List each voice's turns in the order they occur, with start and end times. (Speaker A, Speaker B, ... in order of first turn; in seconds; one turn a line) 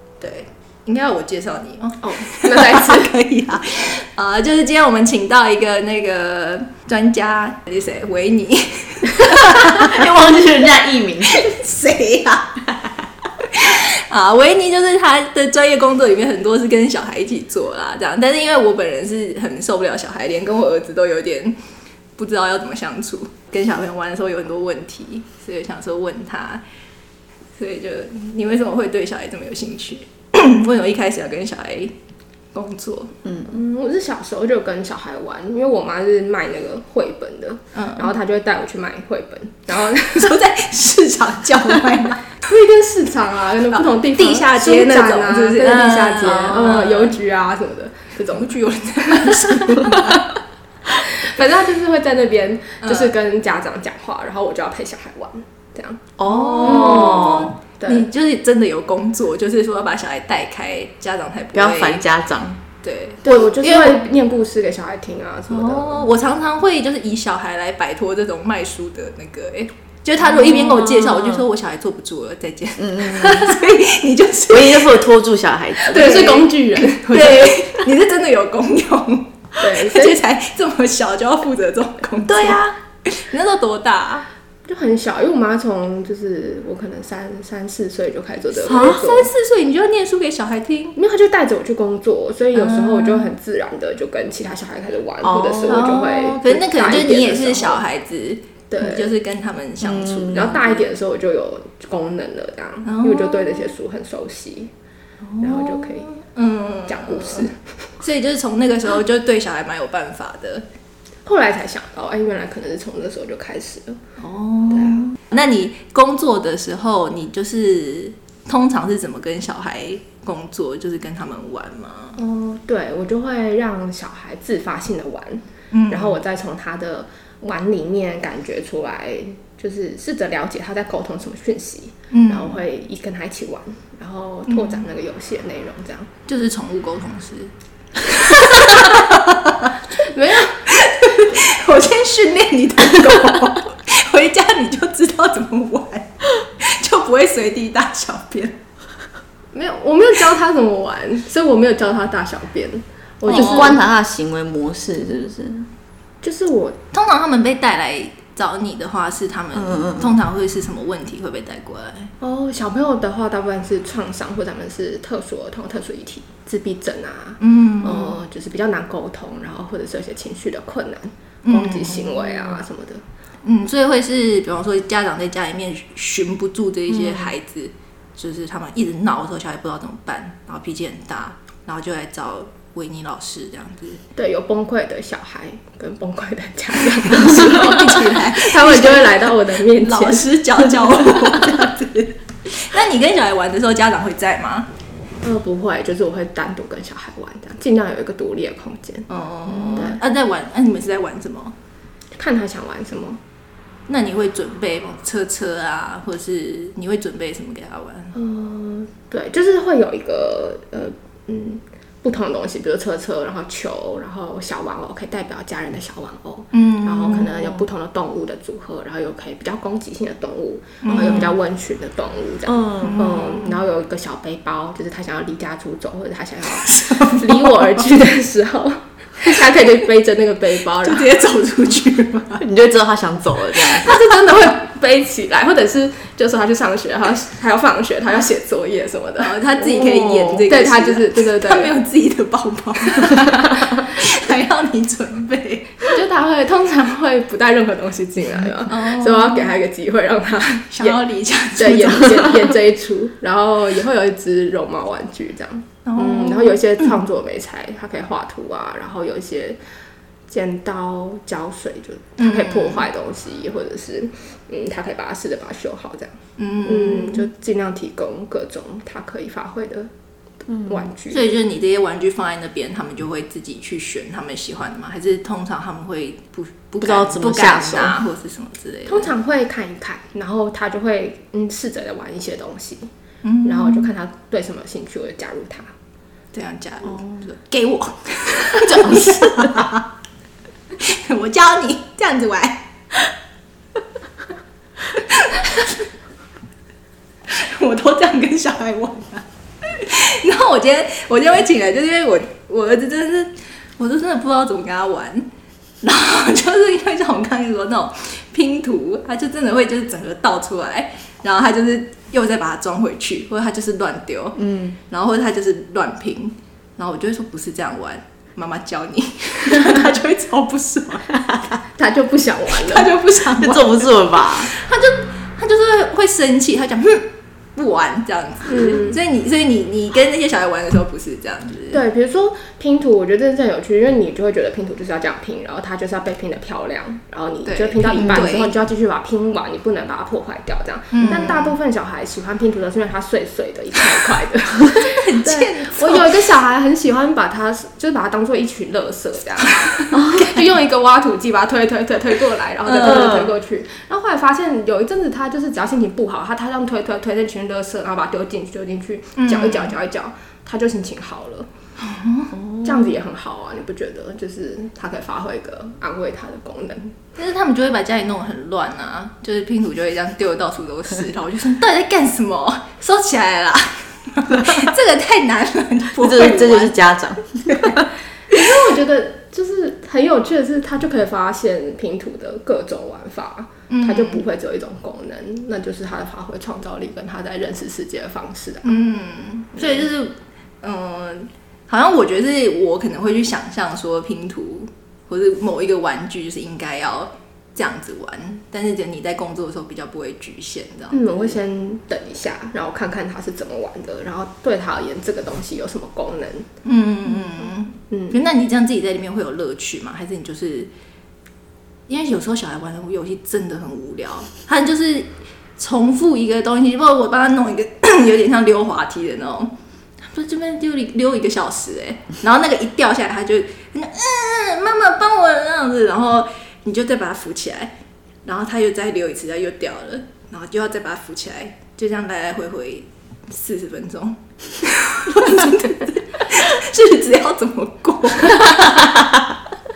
Speaker A: 0.2-10.1
Speaker B: 2.0-3.1
Speaker C: 9.2-11.5
Speaker A: 11.3-12.7
Speaker A: 13.5-21.6
Speaker A: 22.2-26.6
Speaker A: 27.6-31.9
Speaker A: 32.5-33.1
Speaker B: 33.5-40.4
Speaker A: 37.7-38.1
Speaker A: 39.9-42.3
Speaker B: 42.4-50.2
Speaker A: 43.7-47.2
Speaker A: 48.3-50.3
Speaker B: 50.9-58.1
Speaker A: 52.8-53.1
Speaker C: 56.2-57.5
Speaker A: 56.2-62.0
Speaker C: 61.5-62.6
Speaker A: 62.8-64.1
Speaker B: 63.2-66.1
Speaker A: 65.5-75.0
Speaker C: 70.3-71.4
Speaker C: 72.8-73.6
Speaker C: 74.5-76.3
Speaker A: 75.8-84.3
Speaker B: 75.9-77.8
Speaker B: 79.6-80.2
Speaker C: 82.3-82.7
Speaker B: 84.7-89.3
Speaker A: 88.6-91.0
Speaker B: 91.0-97.8
Speaker A: 92.5-93.3
Speaker C: 95.2-95.9
Speaker A: 95.7-100.8
Speaker B: 98.7-99.1
Speaker C: 99.8-100.5
Speaker B: 100.2-104.7
Speaker A: 102.8-103.7
Speaker A: 105.2-110.7
Speaker B: 105.4-106.1
Speaker B: 106.9-107.5
Speaker B: 111.2-114.0
Speaker A: 114.2-122.2
Speaker B: 114.7-115.1
Speaker B: 122.2-136.1
Speaker A: 125.7-126.2
Speaker A: 132.1-132.6
Speaker A: 134.5-134.8
Speaker A: 136.3-139.8
Speaker B: 140.0-140.6
Speaker A: 140.6-148.6
Speaker B: 149.5-153.8
Speaker C: 153.3-155.7
Speaker A: 153.3-153.7
Speaker B: 156.2-156.8
Speaker A: 156.9-162.1
Speaker C: 159.5-160.1
Speaker B: 162.2-173.0
Speaker A: 167.4-168.2
Speaker A: 171.4-172.6
Speaker A: 173.4-184.0
Speaker B: 184.2-190.3
Speaker A: 187.1-194.7
Speaker B: 195.2-200.0
Speaker A: 199.1-201.5
Speaker B: 202.2-203.2
Speaker A: 203.9-208.1
Speaker B: 208.1-231.1
Speaker A: 216.5-217.6
Speaker A: 220.8-221.3
Speaker C: 220.9-221.2
Speaker C: 222.5-223.0
Speaker A: 222.8-223.6
Speaker A: 226.5-227.8
Speaker A: 230.8-232.4
Speaker C: 232.4-233.9
Speaker B: 233.8-241.7
Speaker A: 239.2-245.9
Speaker B: 243.0-243.6
Speaker B: 245.8-251.0
Speaker A: 248.7-249.5
Speaker A: 250.7-252.6
Speaker B: 251.6-259.6
Speaker A: 255.8-256.9
Speaker B: 260.3-269.9
Speaker A: 262.2-262.9
Speaker A: 266.4-267.3
Speaker B: 270.6-271.2
Speaker A: 271.1-279.1
Speaker C: 276.8-278.0
Speaker B: 278.9-282.9
Speaker A: 283.2-283.9
Speaker B: 283.4-285.7
Speaker A: 286.3-289.9
Speaker A: 290.8-292.7
Speaker A: 294.9-295.8
Speaker A: 297.3-305.3
Speaker A: 305.8-314.4
Speaker C: 314.4-314.8
Speaker A: 314.9-321.5
Speaker B: 321.8-322.9
Speaker A: 322.5-331.8
Speaker C: 323.3-324.5
Speaker B: 328.5-329.0
Speaker B: 331.7-361.5
Speaker A: 337.4-338.5
Speaker A: 340.9-341.6
Speaker A: 344.7-346.3
Speaker A: 349.8-350.2
Speaker A: 352.6-353.2
Speaker A: 359.2-359.7
Speaker A: 361.8-362.3
Speaker B: 362.6-366.9
Speaker A: 367.1-376.8
Speaker C: 376.0-377.9
Speaker A: 377.5-377.8
Speaker B: 378.3-388.7
Speaker A: 383.7-384.2
Speaker A: 388.6-401.4
Speaker B: 389.6-389.9
Speaker B: 400.9-406.5
Speaker A: 406.6-410.7
Speaker B: 407.9-408.2
Speaker A: 411.9-419.5
Speaker A: 420.0-427.7
Speaker A: 428.2-439.0
Speaker C: 438.7-439.4